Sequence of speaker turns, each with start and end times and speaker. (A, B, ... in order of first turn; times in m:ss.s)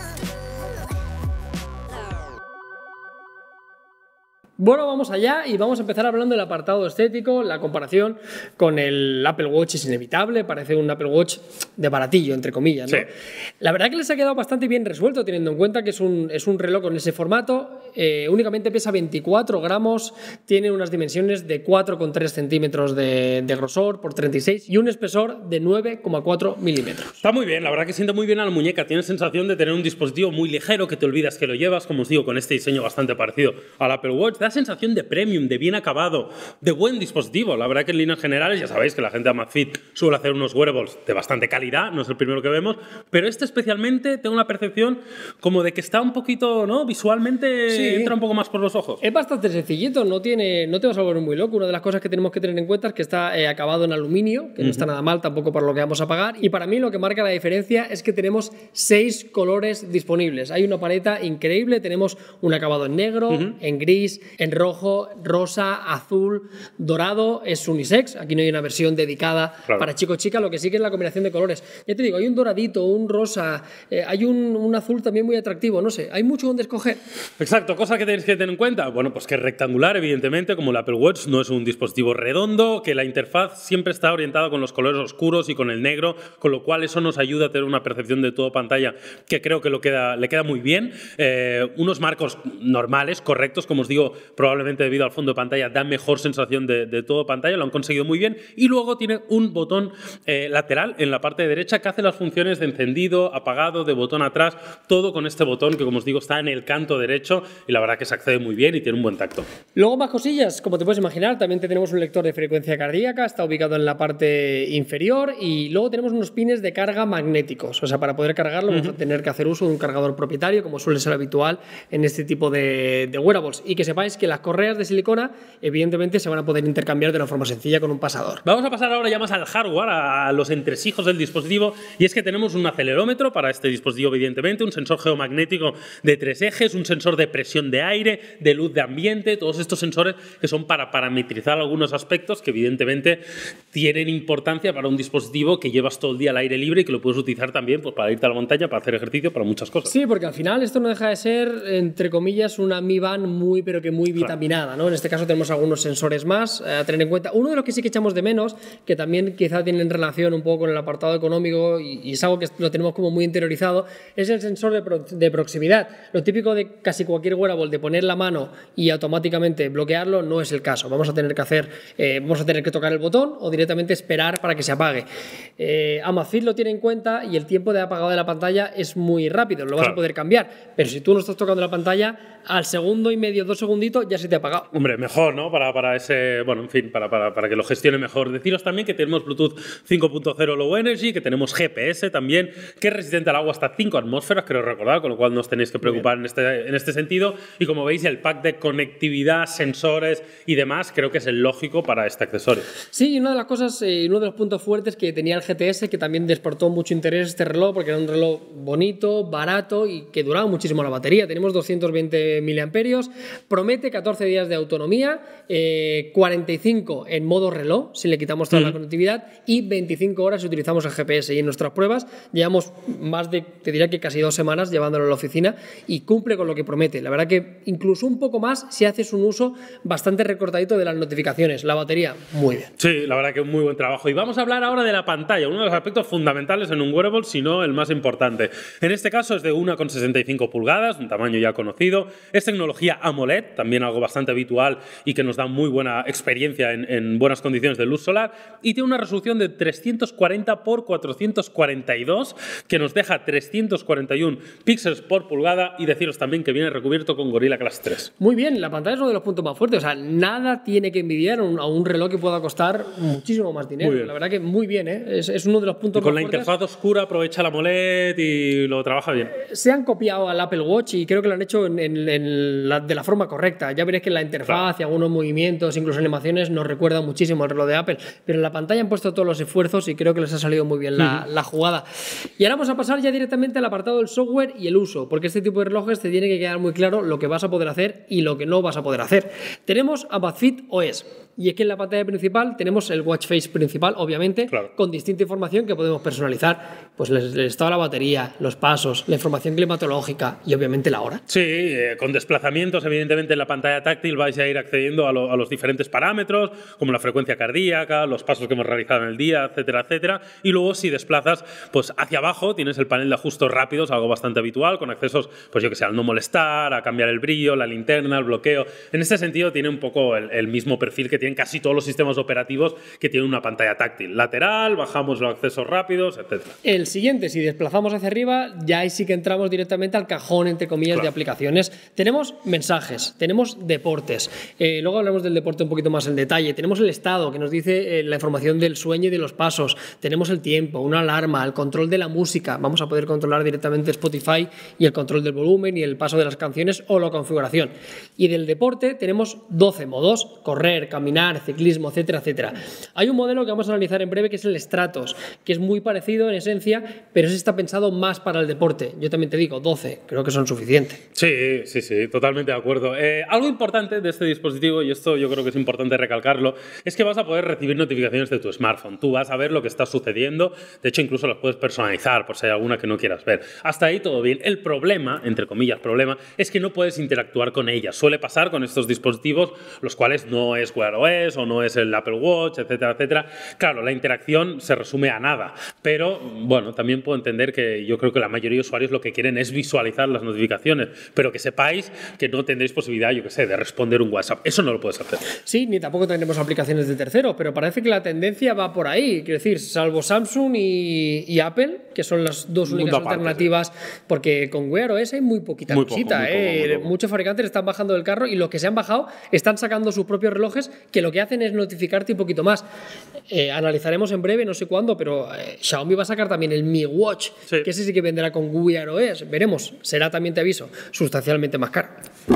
0:04.6-0:27.2 A
0:27.2-0:49.0 B
0:47.7-0:48.1 A
0:49.0-1:17.0 A
0:54.6-0:54.9 B
1:17.4-1:49.5 B
1:49.8-2:08.4 A
2:08.4-2:23.2 B
2:23.7-2:29.9 B
2:29.9-2:55.1 A
2:55.6-3:04.7 A
3:04.7-3:22.7 B
3:22.9-3:52.7 A
3:52.8-4:18.1 B
4:18.2-4:26.5 A
4:23.8-4:24.1 B
4:26.0-4:29.4 B
4:29.4-4:41.8 A
4:42.4-5:01.2 A
5:01.3-5:26.6 B
5:26.6-6:01.0 A
6:01.2-6:35.2 B
6:35.4-6:52.6 A
6:42.7-6:43.5 B
6:45.7-6:46.9 B
6:53.3-7:01.9 A